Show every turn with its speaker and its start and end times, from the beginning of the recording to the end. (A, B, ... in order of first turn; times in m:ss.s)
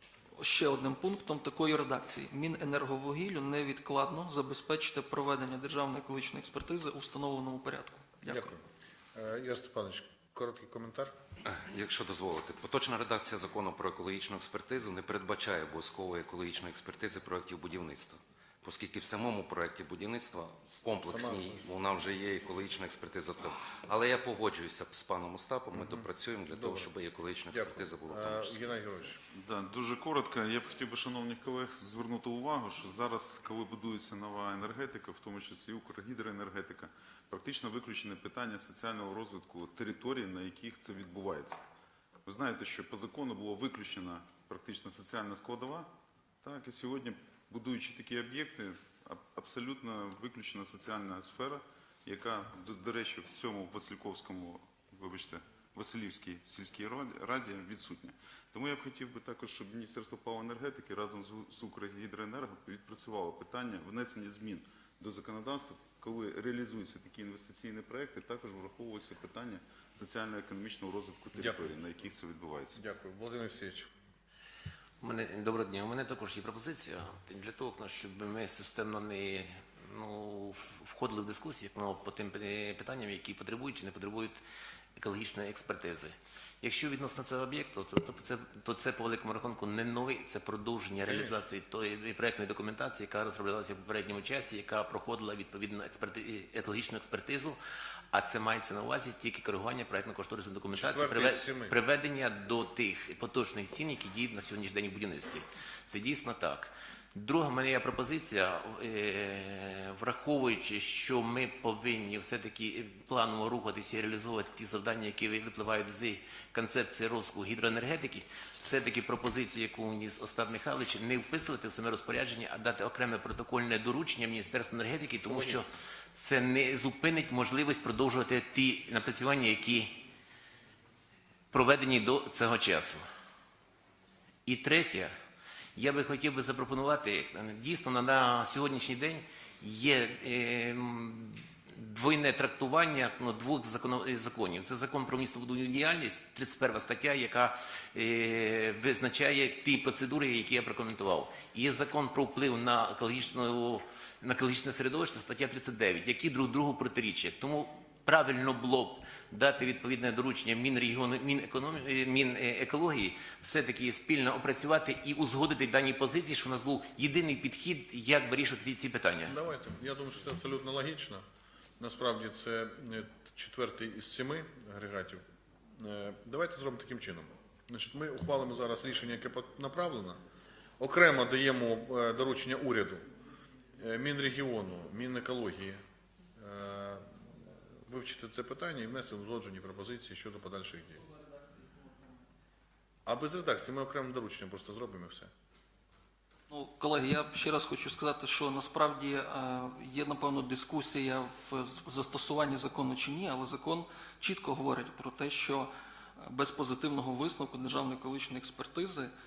0:00.4-0:08.5 A
0:08.2-0:08.6 B
0:09.1-0:11.1 B
0:11.5-0:28.6 C
0:21.1-0:21.6 B
0:25.8-0:26.9 B
0:27.5-0:29.2 B
0:29.3-0:41.6 D
0:42.2-0:45.9 D
0:46.4-1:12.8 D
1:11.4-1:11.7 B
1:12.7-1:13.9 B
1:15.0-1:24.4 E
1:25.0-1:37.6 E
1:31.1-1:31.4 B
1:38.1-2:10.0 E
1:40.7-1:41.8 B
2:05.3-2:05.6 B
2:11.5-2:13.0 E
2:14.4-2:15.1 E
2:15.8-2:49.3 E
2:49.2-2:51.2 B
2:51.8-2:55.2 B
2:55.8-3:00.2 B
3:00.8-3:03.0 B
3:03.8-3:05.8 B
3:06.4-3:07.2 B
3:07.9-3:11.0 B
3:13.0-3:15.3 B
3:16.5-3:25.7 A
3:26.2-3:29.1 A